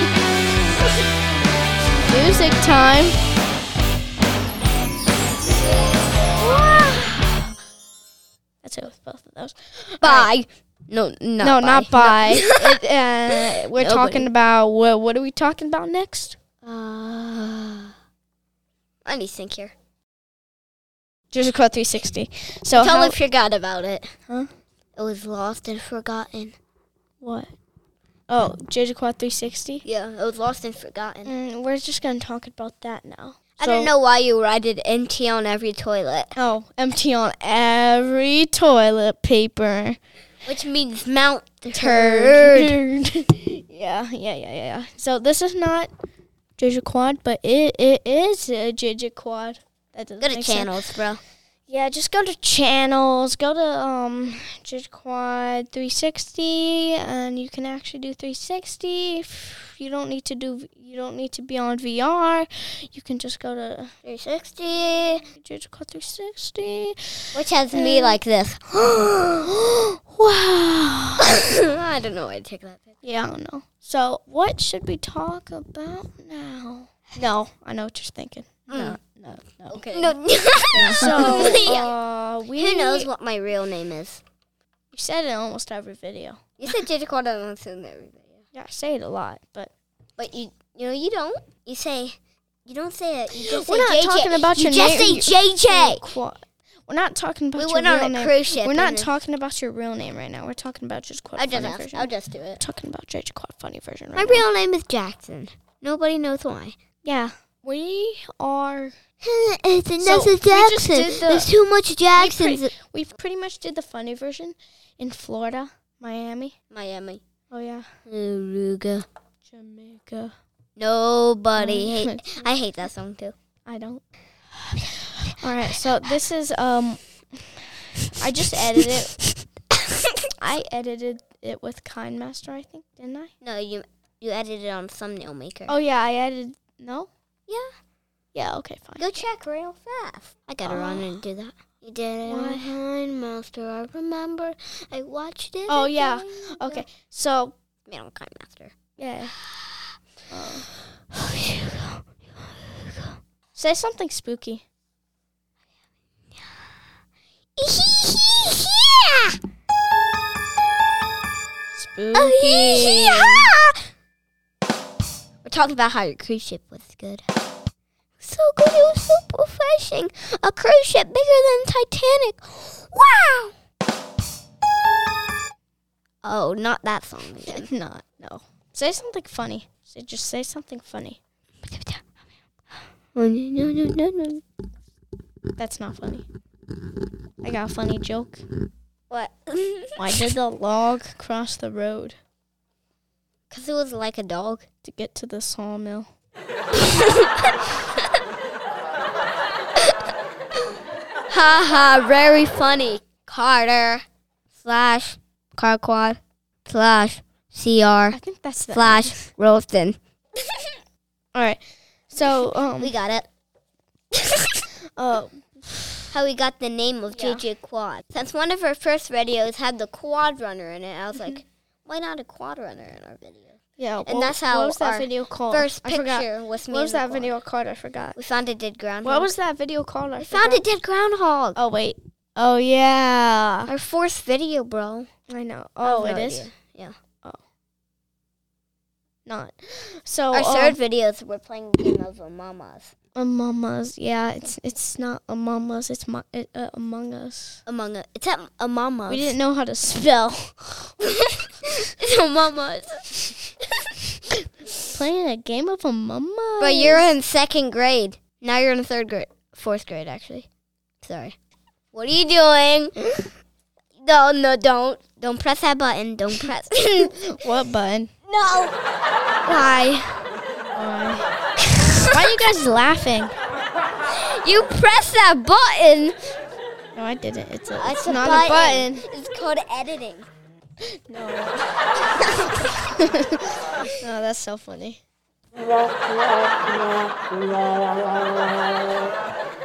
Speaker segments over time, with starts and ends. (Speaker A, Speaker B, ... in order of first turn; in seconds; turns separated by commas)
Speaker A: 2.0-3.2, Speaker B: 6.6-7.0, Speaker A: 8.6-10.3, Speaker B: 10.0-12.8, Speaker A: 11.4-16.4, Speaker B: 13.7-14.3, Speaker B: 16.6-17.9, Speaker B: 19.0-19.7, Speaker A: 21.3-23.2, Speaker B: 22.7-24.1, Speaker B: 24.9-26.6, Speaker A: 27.2-27.5, Speaker A: 28.3-29.8, Speaker B: 29.8-31.3, Speaker A: 31.2-33.9, Speaker B: 33.6-36.3, Speaker A: 36.3-40.0, Speaker B: 40.4-42.8, Speaker A: 41.7-45.9, Speaker A: 46.6-50.7, Speaker B: 50.2-51.2, Speaker A: 51.7-63.9, Speaker B: 64.0-65.2, Speaker A: 65.4-68.2, Speaker B: 67.3-69.0, Speaker A: 68.8-71.4, Speaker B: 71.2-72.9, Speaker A: 73.0-80.1, Speaker B: 78.7-79.0, Speaker B: 79.7-81.9, Speaker A: 80.7-83.1, Speaker B: 82.6-84.2, Speaker A: 84.9-86.4, Speaker B: 86.6-88.4, Speaker A: 88.5-89.7, Speaker B: 90.2-96.0, Speaker A: 93.4-104.4, Speaker B: 97.5-99.1, Speaker B: 101.4-102.6, Speaker B: 104.1-106.8, Speaker A: 107.0-108.9, Speaker B: 109.2-112.7, Speaker A: 110.0-111.5, Speaker A: 112.1-116.5, Speaker B: 116.7-117.2, Speaker A: 117.5-117.9, Speaker B: 118.1-119.0, Speaker A: 119.5-120.3, Speaker B: 120.8-123.3, Speaker A: 121.5-122.5, Speaker A: 123.7-124.0, Speaker A: 125.1-127.0, Speaker A: 128.1-129.2, Speaker A: 130.4-133.3, Speaker B: 133.4-135.8, Speaker A: 135.7-137.1, Speaker A: 138.3-139.0, Speaker B: 139.0-146.8, Speaker A: 140.6-141.2, Speaker A: 142.2-142.7, Speaker A: 145.7-147.5, Speaker B: 147.9-148.7, Speaker A: 149.0-149.3, Speaker B: 149.5-149.8, Speaker A: 150.3-150.7, Speaker B: 151.1-152.1, Speaker B: 152.6-153.2, Speaker A: 153.6-154.6, Speaker B: 157.6-159.4, Speaker A: 161.8-163.5, Speaker B: 162.1-163.8, Speaker B: 165.4-167.2, Speaker B: 168.2-173.5, Speaker B: 176.2-177.7, Speaker A: 177.5-181.2, Speaker B: 181.6-182.0, Speaker B: 183.1-184.4, Speaker A: 185.6-186.2, Speaker A: 187.4-188.4, Speaker B: 189.1-190.3, Speaker A: 190.0-192.2, Speaker B: 193.5-194.7, Speaker A: 194.8-196.1, Speaker B: 196.8-197.3, Speaker B: 201.3-204.1, Speaker B: 204.6-208.2, Speaker A: 208.1-209.2, Speaker B: 208.7-210.0, Speaker A: 211.3-213.0, Speaker B: 212.8-213.3, Speaker B: 214.1-214.5, Speaker A: 215.0-216.1, Speaker B: 216.1-227.3, Speaker A: 217.1-217.4, Speaker A: 223.8-228.2, Speaker B: 228.1-229.3, Speaker A: 229.0-230.6, Speaker B: 230.2-231.6, Speaker A: 231.6-233.7, Speaker B: 233.7-235.1, Speaker A: 235.3-236.5, Speaker B: 235.8-236.9, Speaker A: 239.2-240.8, Speaker B: 240.3-242.9, Speaker A: 243.2-247.6, Speaker B: 247.7-249.3, Speaker A: 249.1-250.9, Speaker B: 252.0-253.5, Speaker A: 254.9-257.0, Speaker B: 256.6-260.5, Speaker B: 261.0-261.4, Speaker B: 261.9-263.3, Speaker B: 264.0-267.2, Speaker A: 267.0-268.1, Speaker B: 268.3-268.7, Speaker B: 269.4-270.2, Speaker A: 270.7-271.3, Speaker B: 271.7-272.4, Speaker A: 272.1-273.4, Speaker B: 274.1-276.2, Speaker A: 276.9-279.1, Speaker B: 277.8-280.3, Speaker A: 281.1-283.3, Speaker A: 284.0-285.0